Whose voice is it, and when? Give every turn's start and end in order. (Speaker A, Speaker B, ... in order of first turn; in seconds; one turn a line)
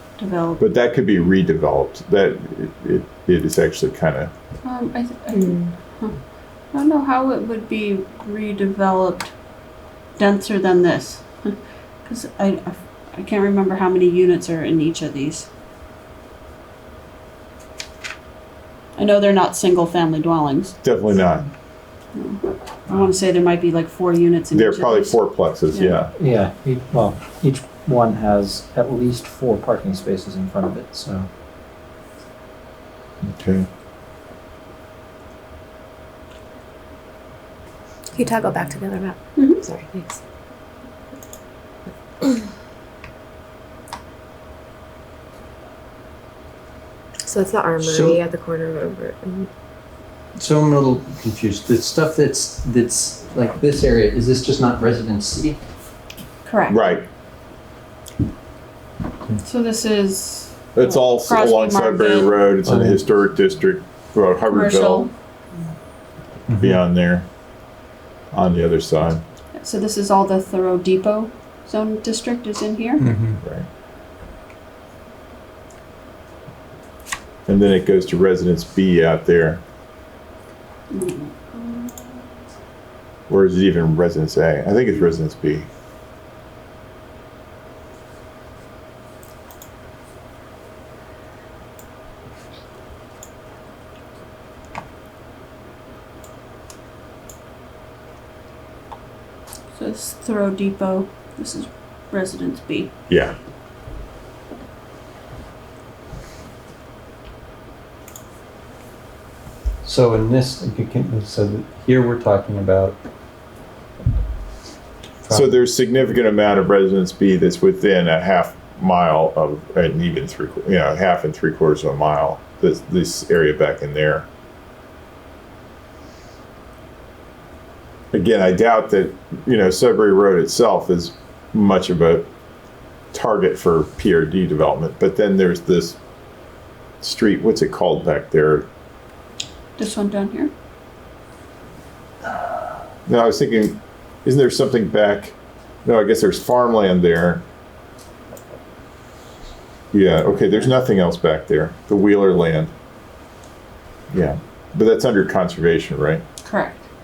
Speaker A: 0.2-0.6
Speaker B: 0.6-4.3
Speaker A: 4.6-6.2
Speaker C: 5.3-5.7
Speaker A: 6.7-9.3
Speaker A: 10.2-15.5
Speaker A: 19.0-20.8
Speaker B: 20.8-21.5
Speaker A: 22.1-26.0
Speaker B: 24.5-26.1
Speaker D: 26.2-31.3
Speaker B: 33.2-33.7
Speaker C: 38.1-40.2
Speaker A: 39.4-39.6
Speaker C: 47.2-49.5
Speaker E: 47.8-48.2
Speaker E: 50.4-55.6
Speaker A: 56.5-56.8
Speaker B: 56.7-57.0
Speaker A: 59.4-62.5
Speaker B: 60.8-65.1
Speaker E: 62.7-63.0
Speaker A: 64.5-65.1
Speaker E: 66.5-66.8
Speaker B: 66.6-67.3
Speaker B: 68.3-69.2
Speaker A: 69.5-73.0
Speaker E: 73.0-73.4
Speaker B: 77.5-79.6
Speaker A: 80.9-82.3
Speaker B: 83.3-85.7
Speaker A: 99.7-102.9
Speaker B: 103.1-103.4
Speaker E: 109.8-113.0
Speaker E: 115.2-115.5
Speaker B: 115.3-124.3
Speaker B: 128.1-132.3
Speaker B: 133.1-136.0
Speaker B: 137.0-138.7
Speaker A: 139.8-140.5
Speaker B: 143.1-147.4
Speaker B: 149.9-152.7
Speaker B: 154.1-156.2
Speaker A: 156.4-156.9